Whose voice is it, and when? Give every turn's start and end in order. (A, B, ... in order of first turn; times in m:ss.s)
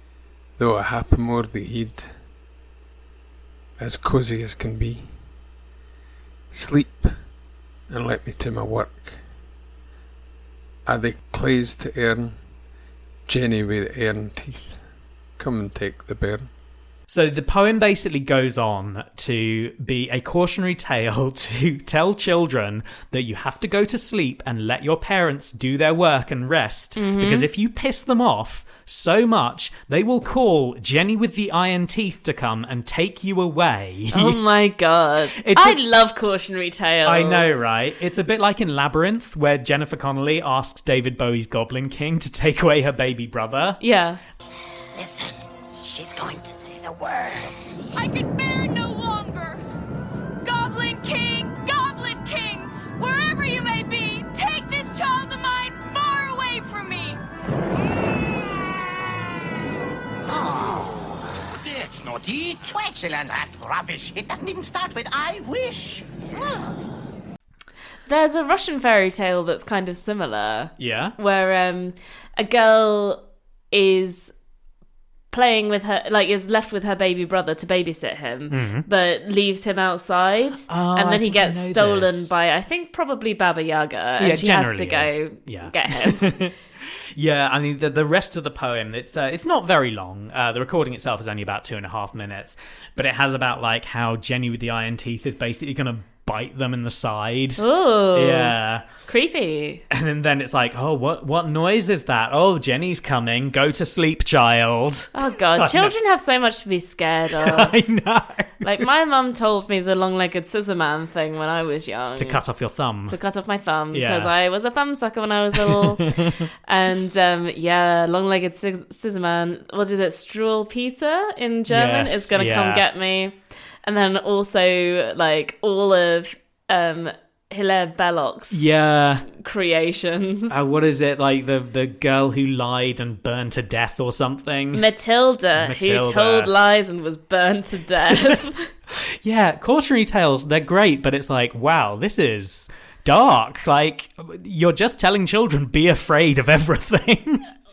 0:00.6-0:02.1 A
0:03.8-0:05.1 A
0:06.5-0:07.1 A
0:07.9-0:09.2 A
0:10.8-0:12.4 A
0:13.3-0:14.8 A
0:15.4-0:16.5 A
0:17.1-0:34.4 B
0:27.0-0:27.5 C
0:34.1-0:37.6 C
0:35.3-0:35.8 B
0:37.0-0:43.8 B
0:43.8-0:44.2 C
0:44.9-0:47.8 D
0:47.9-0:49.6 E
0:50.4-0:57.2 E
1:00.2-1:06.6 D
1:08.1-1:14.3 C
1:10.8-1:11.2 B
1:15.3-1:26.3 C
1:18.5-1:18.8 B
1:20.7-1:22.4 B
1:24.2-1:38.9 B
1:37.6-1:38.5 C
1:39.0-1:39.8 C
1:39.9-1:45.9 B
1:45.1-1:47.8 C
1:47.4-1:48.9 B
1:48.6-1:52.4 C
1:52.2-1:53.2 B
1:53.1-2:08.7 C
1:53.9-1:54.3 B
1:55.5-1:56.5 B
2:01.7-2:02.8 B
2:08.5-2:09.3 B
2:09.3-2:10.6 C
2:10.5-2:14.8 B
2:14.7-2:18.7 C
2:15.6-2:16.5 B
2:18.9-2:27.4 B